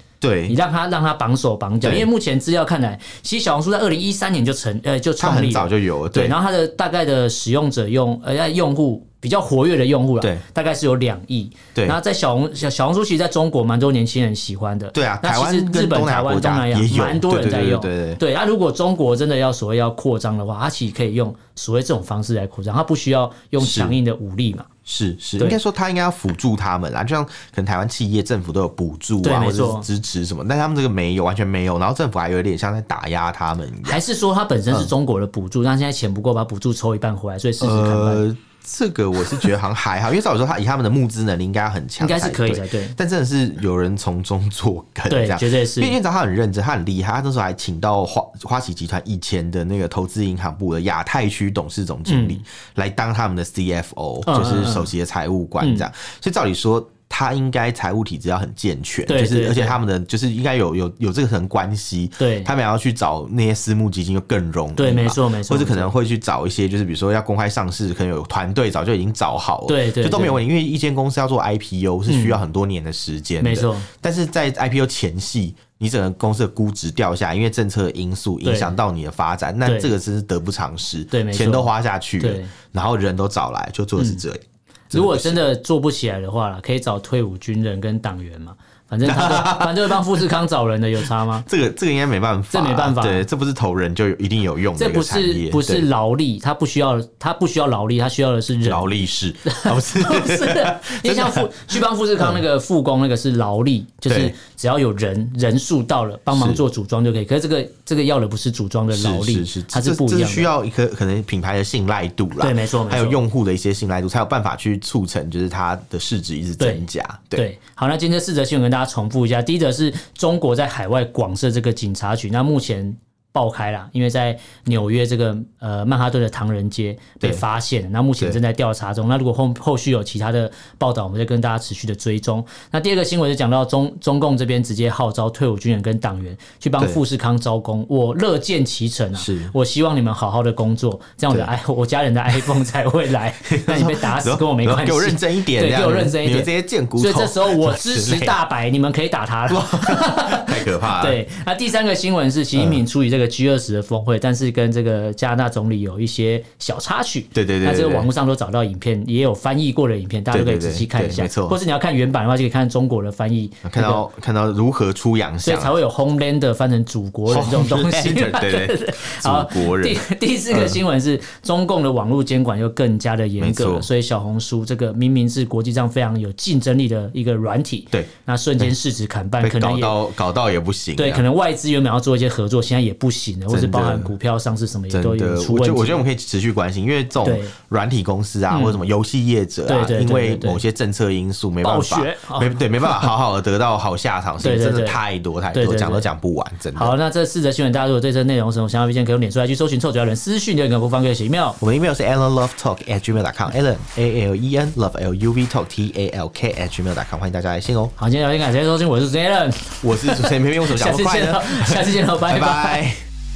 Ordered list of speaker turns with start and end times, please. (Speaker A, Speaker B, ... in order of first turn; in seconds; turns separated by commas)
Speaker A: 0.2-0.6, Speaker B: 0.5-24.7, Speaker A: 1.8-2.1, Speaker A: 5.2-6.4, Speaker A: 14.9-18.2, Speaker A: 23.6-24.0, Speaker A: 24.9-34.0, Speaker B: 29.2-29.9, Speaker B: 33.8-38.2, Speaker A: 37.6-85.4, Speaker B: 42.0-43.0, Speaker B: 45.1-46.0, Speaker B: 52.1-52.4, Speaker B: 54.2-54.9, Speaker B: 55.6-55.9, Speaker B: 59.1-59.8, Speaker B: 62.2-62.5, Speaker B: 64.8-65.9, Speaker B: 69.7-70.4, Speaker B: 72.1-72.4, Speaker B: 73.4-73.9, Speaker B: 78.4-78.8, Speaker B: 79.7-79.9, Speaker B: 81.1-82.5, Speaker B: 84.9-91.5, Speaker A: 89.0-90.2, Speaker A: 91.5-95.9, Speaker B: 92.5-93.3, Speaker B: 94.8-98.9, Speaker A: 98.7-102.4, Speaker B: 99.5-110.5, Speaker A: 104.1-104.3, Speaker A: 106.3-106.6, Speaker A: 108.9-117.5, Speaker B: 112.4-113.2, Speaker B: 116.6-164.0, Speaker A: 139.2-139.5, Speaker A: 143.5-148.4, Speaker A: 149.5-151.2, Speaker A: 152.6-152.8, Speaker A: 157.3-158.1, Speaker A: 160.3-161.6, Speaker A: 163.6-165.8, Speaker B: 165.4-180.0, Speaker A: 167.3-170.0, Speaker A: 170.5-170.8, Speaker A: 173.4-173.9, Speaker A: 177.9-178.7, Speaker A: 179.4-181.2, Speaker B: 181.0-186.1, Speaker A: 183.5-184.1, Speaker A: 184.9-196.9, Speaker B: 187.2-187.6, Speaker B: 188.5-188.8, Speaker B: 189.7-190.6, Speaker B: 191.6-193.1, Speaker B: 194.4-195.0, Speaker B: 195.5-196.1, Speaker B: 196.8-201.6, Speaker A: 201.6-207.9, Speaker B: 208.0-212.8, Speaker A: 209.8-213.0